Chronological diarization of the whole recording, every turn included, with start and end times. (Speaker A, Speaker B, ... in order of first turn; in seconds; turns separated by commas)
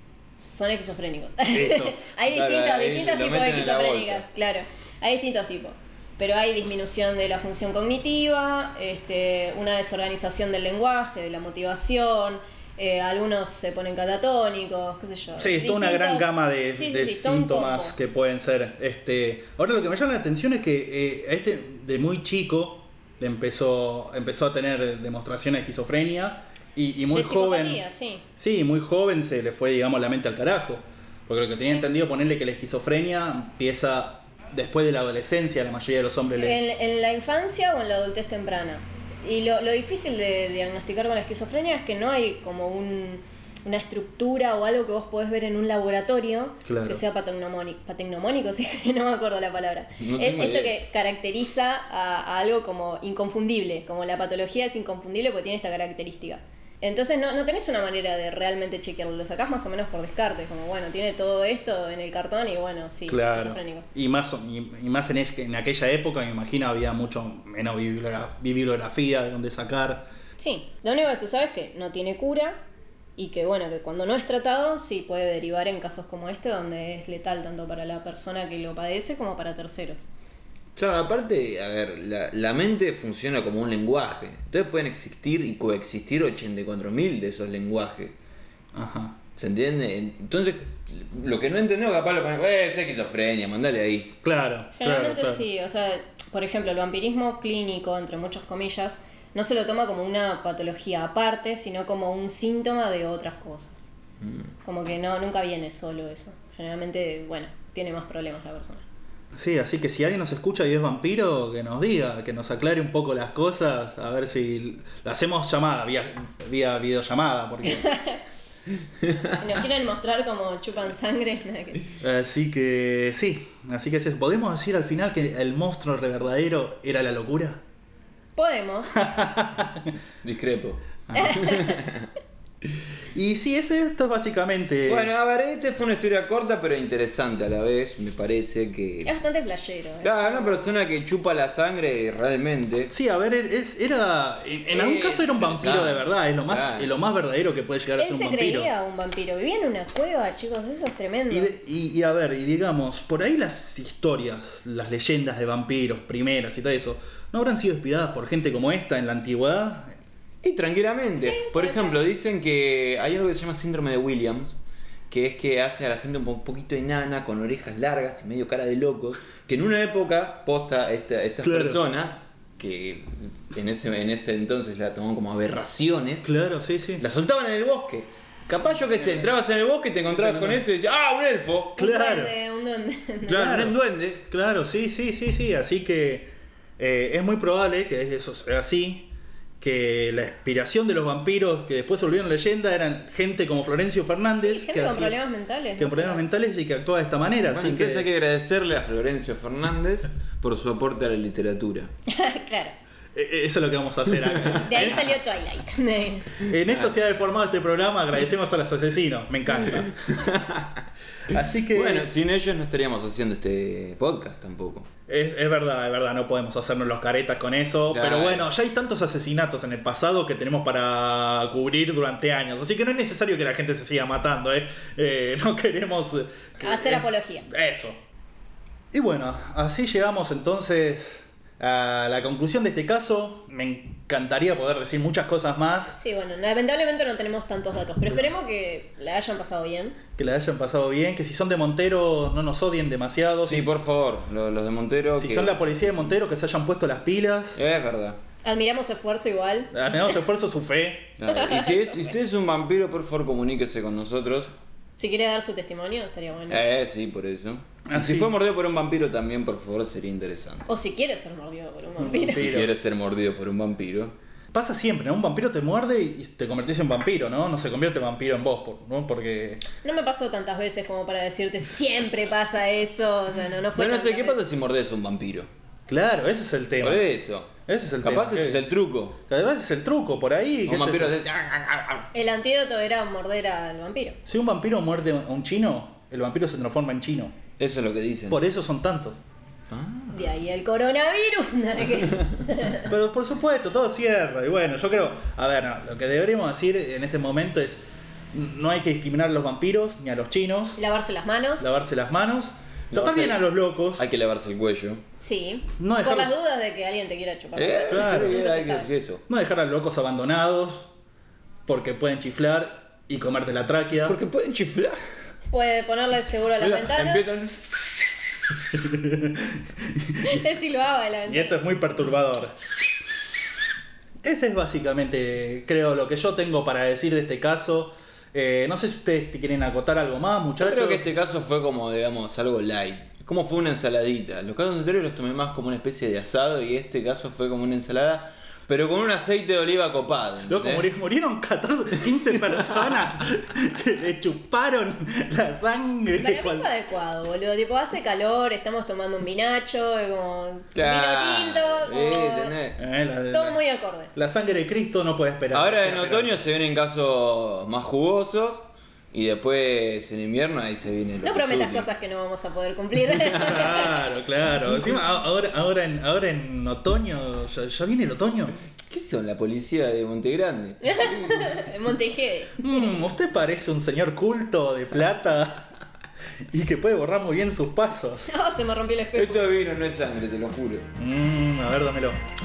Speaker A: 0.4-18.0, Speaker B: 1.5-2.0, Speaker C: 2.3-4.3, Speaker B: 15.4-27.8, Speaker A: 27.1-28.2, Speaker B: 28.4-36.6, Speaker A: 36.4-63.9, Speaker B: 46.6-47.0, Speaker C: 50.0-50.8, Speaker B: 63.1-70.0, Speaker A: 70.4-72.6, Speaker A: 73.2-80.0, Speaker C: 80.8-88.2, Speaker B: 88.7-89.2, Speaker C: 89.4-94.1, Speaker B: 94.2-95.5, Speaker A: 94.8-103.9, Speaker C: 104.2-104.5, Speaker A: 104.6-108.8, Speaker B: 109.3-117.9, Speaker A: 117.6-118.2, Speaker A: 119.3-121.8, Speaker B: 122.0-127.6, Speaker A: 128.4-128.9, Speaker B: 128.9-129.9, Speaker C: 130.2-132.1, Speaker B: 131.1-131.4, Speaker A: 131.1-131.8, Speaker B: 133.1-135.1, Speaker C: 134.8-139.1, Speaker A: 139.1-140.8, Speaker C: 140.0-142.9, Speaker B: 142.9-148.7, Speaker C: 144.7-146.9, Speaker A: 148.0-151.5, Speaker B: 151.3-160.0, Speaker C: 160.4-164.6, Speaker A: 161.2-162.0, Speaker C: 165.1-176.3, Speaker B: 171.4-171.8, Speaker B: 176.2-177.0, Speaker C: 177.0-181.8, Speaker B: 179.0-179.3, Speaker B: 180.1-180.6, Speaker B: 181.8-182.3, Speaker A: 181.8-183.6, Speaker C: 183.3-184.2, Speaker B: 183.3-183.8, Speaker B: 184.3-189.1, Speaker B: 189.6-195.2, Speaker A: 194.3-196.3, Speaker B: 195.8-198.1, Speaker C: 197.4-201.9, Speaker A: 202.1-202.8, Speaker B: 203.1-205.2, Speaker A: 204.6-206.4, Speaker B: 206.4-210.2, Speaker C: 209.8-210.8, Speaker B: 211.3-212.1, Speaker C: 211.7-214.9, Speaker B: 215.1-228.0, Speaker C: 217.9-218.5, Speaker A: 226.6-227.5, Speaker B: 228.9-236.0, Speaker A: 235.9-240.0, Speaker B: 240.2-243.7, Speaker C: 243.5-245.9, Speaker B: 245.2-247.6, Speaker C: 247.6-248.2, Speaker A: 248.4-250.1, Speaker B: 249.7-251.2, Speaker C: 251.2-254.5, Speaker A: 251.3-252.2, Speaker A: 255.0-256.6, Speaker C: 256.5-260.7, Speaker B: 257.9-258.3, Speaker A: 260.7-262.5, Speaker B: 262.0-262.7, Speaker C: 262.1-264.1, Speaker B: 264.5-269.6, Speaker A: 269.8-274.4, Speaker C: 273.8-275.5, Speaker B: 275.9-277.1, Speaker C: 276.8-279.2, Speaker B: 277.7-278.6, Speaker B: 279.3-281.2, Speaker C: 280.7-282.1, Speaker A: 282.1-284.2, Speaker B: 284.3-287.4, Speaker C: 287.6-288.4, Speaker B: 288.3-289.2, Speaker C: 289.7-290.4, Speaker A: 290.1-292.9, Speaker B: 292.9-300.8, Speaker A: 300.8-301.7, Speaker B: 301.6-304.1, Speaker C: 302.9-303.4, Speaker C: 304.0-305.0, Speaker A: 305.2-308.9, Speaker B: 305.8-306.4, Speaker C: 307.6-309.2, Speaker B: 307.9-308.4, Speaker B: 309.3-310.9, Speaker B: 311.7-314.2, Speaker C: 314.0-315.0, Speaker A: 315.5-317.3, Speaker C: 316.6-317.9, Speaker B: 318.8-320.4, Speaker A: 320.2-321.6, Speaker B: 321.3-322.6, Speaker B: 324.2-331.1, Speaker C: 330.6-340.9, Speaker B: 340.5-346.7, Speaker A: 346.2-352.6, Speaker C: 350.8-352.8, Speaker B: 352.8-353.6, Speaker A: 353.3-354.1, Speaker B: 354.1-356.3, Speaker C: 355.5-361.9, Speaker A: 361.2-364.0, Speaker B: 363.1-368.6, Speaker C: 368.9-371.6, Speaker A: 370.8-372.8, Speaker B: 372.6-375.7, Speaker B: 376.5-378.3, Speaker A: 378.3-379.6, Speaker C: 379.1-380.9, Speaker B: 381.0-382.2